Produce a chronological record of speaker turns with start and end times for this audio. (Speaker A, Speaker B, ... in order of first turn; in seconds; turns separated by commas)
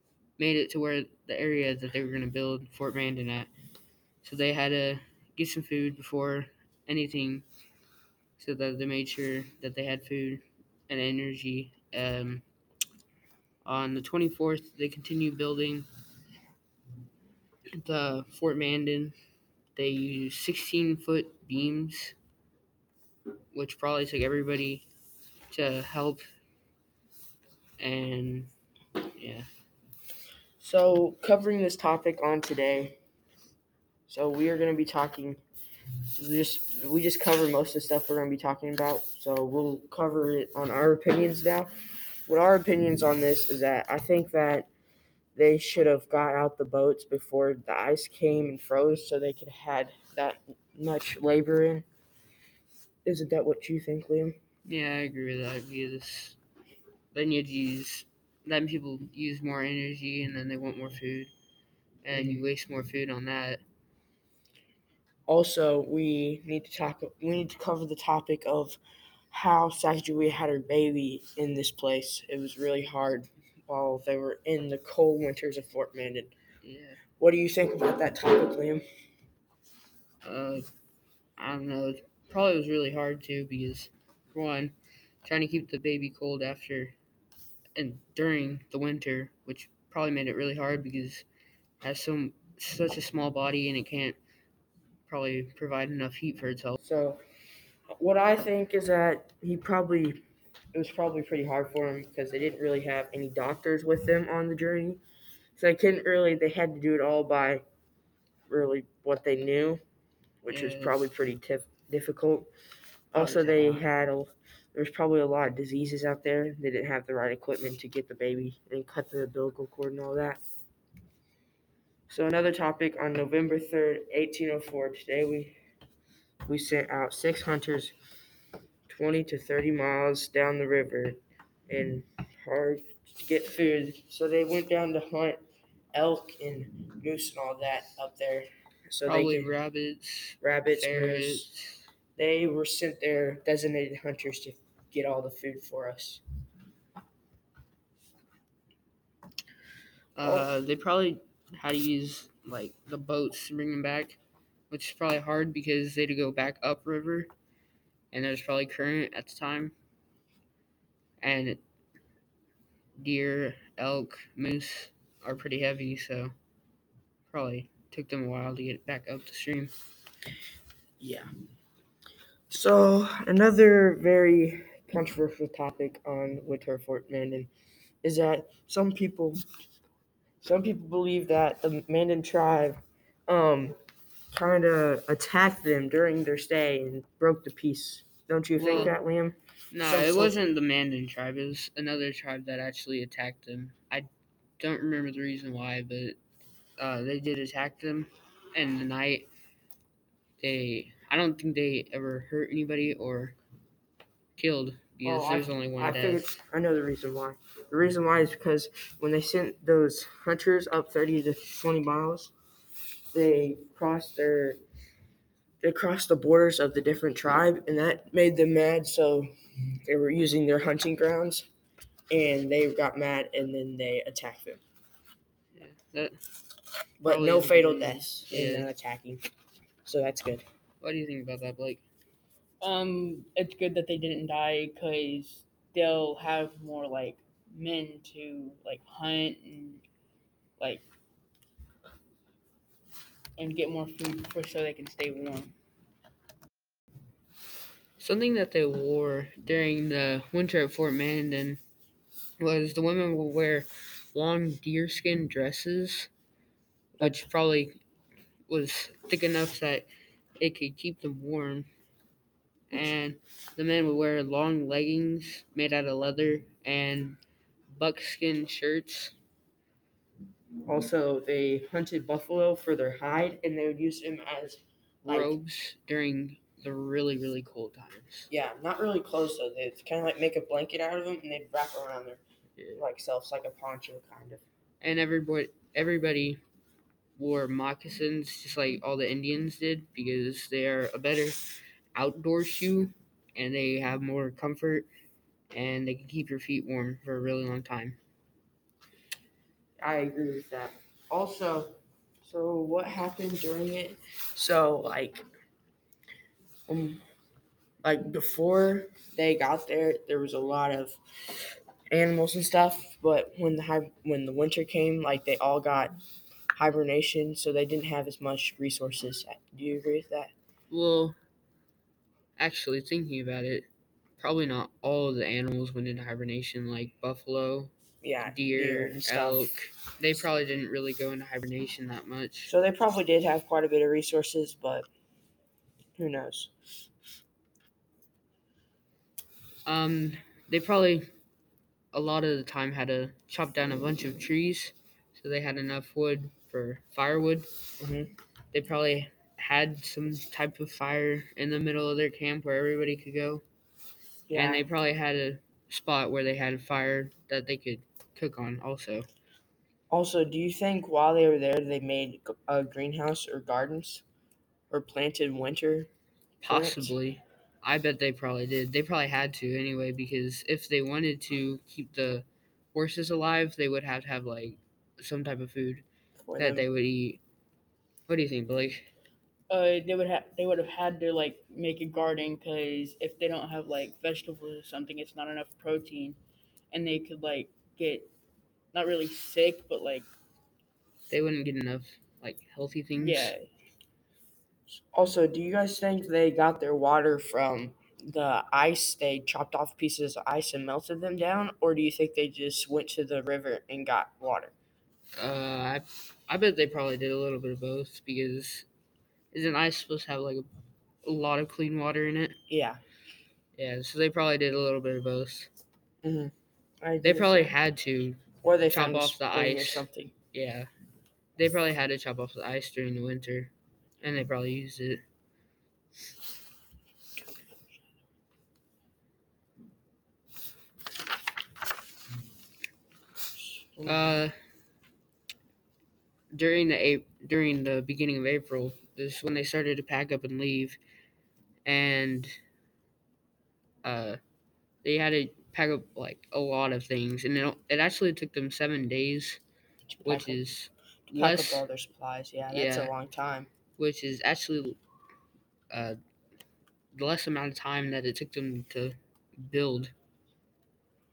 Speaker A: 0.4-3.5, Speaker A: 4.2-7.4, Speaker A: 8.4-12.4, Speaker A: 13.6-15.9, Speaker A: 17.7-19.1, Speaker A: 19.7-22.1, Speaker A: 23.5-24.9, Speaker A: 25.5-26.2, Speaker A: 27.8-28.5, Speaker A: 29.2-29.5, Speaker B: 30.6-33.0, Speaker B: 34.1-35.4, Speaker B: 36.2-41.7, Speaker B: 42.3-44.7, Speaker B: 45.3-51.8, Speaker B: 53.0-54.4, Speaker A: 54.6-56.4, Speaker A: 57.1-61.3, Speaker A: 62.0-63.6, Speaker B: 62.1-62.4, Speaker B: 65.3-68.8, Speaker B: 69.3-76.3, Speaker A: 76.6-77.0, Speaker B: 77.2-78.8, Speaker A: 80.2-80.6, Speaker A: 81.4-86.9, Speaker A: 87.8-91.2, Speaker A: 91.8-94.2, Speaker A: 95.1-96.8, Speaker B: 96.8-97.2, Speaker B: 98.0-100.2, Speaker B: 100.7-105.0, Speaker B: 105.6-107.6, Speaker B: 108.5-109.8, Speaker B: 110.4-112.5, Speaker A: 110.5-111.0, Speaker B: 113.1-120.4, Speaker A: 113.1-113.8, Speaker B: 122.1-125.5, Speaker B: 126.4-127.9, Speaker B: 128.9-135.4, Speaker B: 135.9-139.5, Speaker A: 139.1-141.8, Speaker B: 140.4-141.5, Speaker B: 142.2-146.2, Speaker A: 150.1-154.2, Speaker B: 150.2-150.5, Speaker A: 154.7-157.3, Speaker A: 158.1-159.7, Speaker A: 161.2-161.6, Speaker A: 163.0-166.3, Speaker A: 167.3-169.7, Speaker B: 171.0-171.3, Speaker B: 172.5-177.5, Speaker B: 178.0-179.4, Speaker B: 180.4-183.8, Speaker B: 184.3-190.3, Speaker A: 188.6-188.9, Speaker A: 189.7-194.1, Speaker A: 194.6-196.2, Speaker A: 196.8-199.3, Speaker A: 200.4-203.3, Speaker A: 204.3-206.3, Speaker B: 205.0-212.3, Speaker B: 213.1-214.6, Speaker B: 215.6-219.3, Speaker B: 219.8-221.5, Speaker B: 222.1-224.6, Speaker A: 225.5-226.2, Speaker B: 227.0-229.2, Speaker A: 227.0-228.7, Speaker B: 229.8-230.4, Speaker A: 230.8-231.8, Speaker C: 232.6-239.8, Speaker C: 240.6-240.8, Speaker C: 243.4-245.5, Speaker A: 248.0-251.6, Speaker A: 252.4-256.1, Speaker B: 257.0-257.2, Speaker A: 257.0-257.8, Speaker A: 258.5-261.7, Speaker A: 262.7-267.2, Speaker A: 267.7-269.1, Speaker B: 270.6-275.4, Speaker A: 275.0-278.3, Speaker B: 278.3-282.2, Speaker A: 282.6-282.8, Speaker B: 282.8-284.4, Speaker A: 284.8-286.4, Speaker A: 287.2-291.4, Speaker A: 291.9-294.9, Speaker A: 295.5-298.0, Speaker B: 299.8-305.2, Speaker B: 306.7-307.0, Speaker B: 307.8-311.0, Speaker B: 311.9-315.9, Speaker B: 316.5-320.3, Speaker A: 320.7-321.1, Speaker A: 322.4-327.7, Speaker B: 328.0-329.5, Speaker A: 328.2-332.5, Speaker B: 332.5-334.9, Speaker B: 336.0-336.5, Speaker A: 339.6-341.1, Speaker A: 341.9-347.5, Speaker B: 347.8-348.1, Speaker A: 348.5-353.4, Speaker B: 354.3-354.6, Speaker A: 354.3-359.1, Speaker B: 359.9-364.0, Speaker B: 364.7-365.9, Speaker B: 366.4-367.0, Speaker A: 366.4-375.8, Speaker B: 376.2-376.6, Speaker A: 376.4-377.2, Speaker A: 378.1-378.9, Speaker C: 379.5-386.2, Speaker C: 386.7-388.1, Speaker C: 388.7-390.1, Speaker A: 391.1-393.3, Speaker C: 393.0-393.4, Speaker B: 394.9-404.5, Speaker A: 405.1-408.6, Speaker A: 409.3-410.4, Speaker A: 411.0-412.4, Speaker B: 412.5-412.8, Speaker A: 413.6-415.5, Speaker B: 416.0-417.5, Speaker A: 417.0-420.7, Speaker B: 418.4-420.1, Speaker A: 421.4-425.0, Speaker B: 433.7-434.2, Speaker A: 433.8-434.4, Speaker A: 436.3-440.8, Speaker A: 441.6-442.4, Speaker A: 443.8-444.2, Speaker A: 444.8-449.4, Speaker B: 449.9-450.4, Speaker A: 450.0-451.6, Speaker B: 451.1-453.5, Speaker A: 452.5-452.9, Speaker A: 453.8-454.8, Speaker A: 455.7-455.9, Speaker A: 456.9-459.9